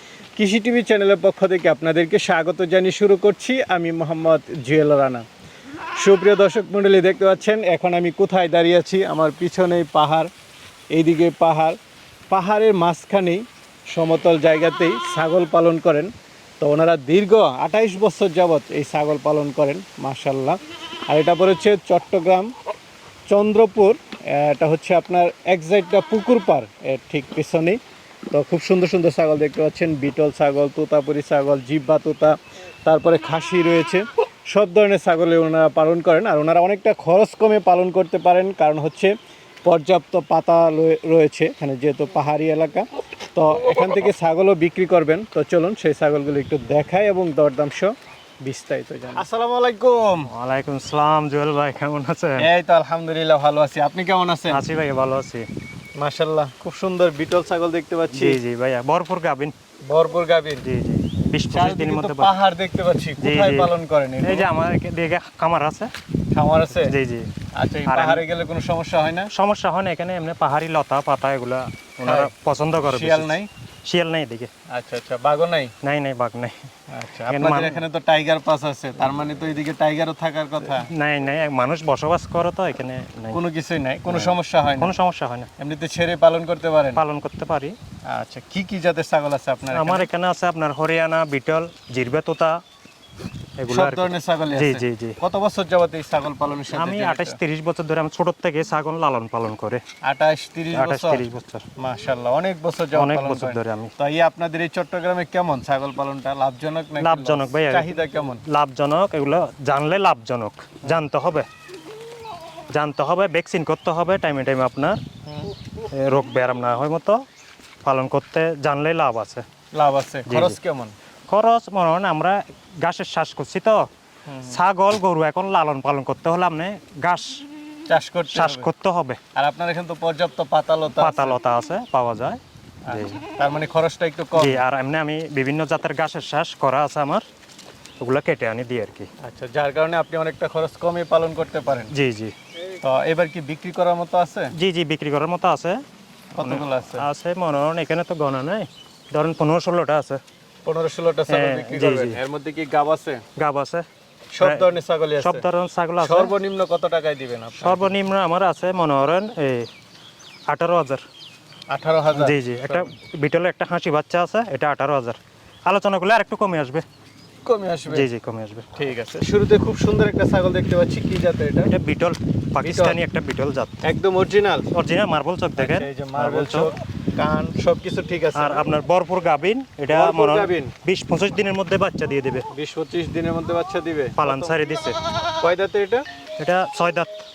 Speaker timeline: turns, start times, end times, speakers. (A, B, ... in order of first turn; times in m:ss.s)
0:00.4-0:05.2 A
0:06.0-0:10.3 A
0:10.9-0:11.8 A
0:12.3-0:22.5 A
0:23.3-0:27.8 A
0:28.3-0:50.3 A
0:50.3-0:52.5 B
0:52.4-0:54.6 A
0:54.5-0:55.4 B
0:56.0-0:58.4 A
0:58.1-0:59.5 B
0:59.9-1:00.7 A
1:00.6-1:02.3 B
1:01.5-1:04.5 A
1:03.2-1:05.9 B
1:06.3-1:06.9 A
1:06.8-1:07.3 B
1:07.5-1:09.3 A
1:07.9-1:08.2 B
1:09.3-1:14.5 B
1:12.0-1:12.3 A
1:12.9-1:13.5 A
1:14.7-1:15.7 A
1:15.8-1:16.6 B
1:16.9-1:20.9 A
1:17.3-1:17.8 B
1:20.6-1:23.4 B
1:23.3-1:25.0 A
1:24.1-1:25.5 B
1:25.6-1:27.0 A
1:27.0-1:27.8 B
1:28.1-1:30.1 A
1:29.7-1:32.6 B
1:33.6-1:35.2 B
1:33.7-1:37.4 A
1:36.7-1:39.8 B
1:40.0-1:41.2 A
1:40.7-1:41.6 B
1:41.8-1:48.4 A
1:42.9-1:43.9 B
1:47.0-1:47.9 B
1:48.5-1:51.5 B
1:52.7-1:55.0 B
1:55.9-1:57.2 B
1:57.8-1:59.4 B
1:59.7-2:01.0 A
2:00.3-2:00.6 B
2:01.3-2:03.9 B
2:04.3-2:04.6 A
2:04.5-2:07.4 B
2:07.9-2:08.7 A
2:08.3-2:09.2 B
2:09.4-2:11.4 A
2:11.0-2:13.2 B
2:12.8-2:14.6 A
2:14.4-2:17.2 B
2:18.0-2:19.1 B
2:19.2-2:21.9 A
2:21.9-2:22.3 B
2:22.8-2:24.5 A
2:24.6-2:25.8 B
2:26.3-2:27.1 A
2:26.4-2:30.2 B
2:30.6-2:33.2 A
2:31.3-2:32.2 B
2:33.4-2:33.8 B
2:34.3-2:35.5 A
2:34.4-2:36.3 B
2:36.0-2:37.8 A
2:37.6-2:39.7 B
2:40.5-2:41.0 B
2:41.7-2:42.9 A
2:42.1-2:46.8 B
2:47.4-2:48.1 A
2:47.9-2:48.7 B
2:48.8-2:51.7 A
2:51.6-2:53.8 B
2:52.6-2:53.0 A
2:53.8-2:54.7 A
2:54.7-2:56.7 B
2:55.6-2:58.7 A
2:58.3-3:02.5 B
2:59.9-3:00.7 A
3:02.5-3:04.6 A
3:04.2-3:05.0 B
3:05.4-3:06.0 A
3:06.4-3:07.2 B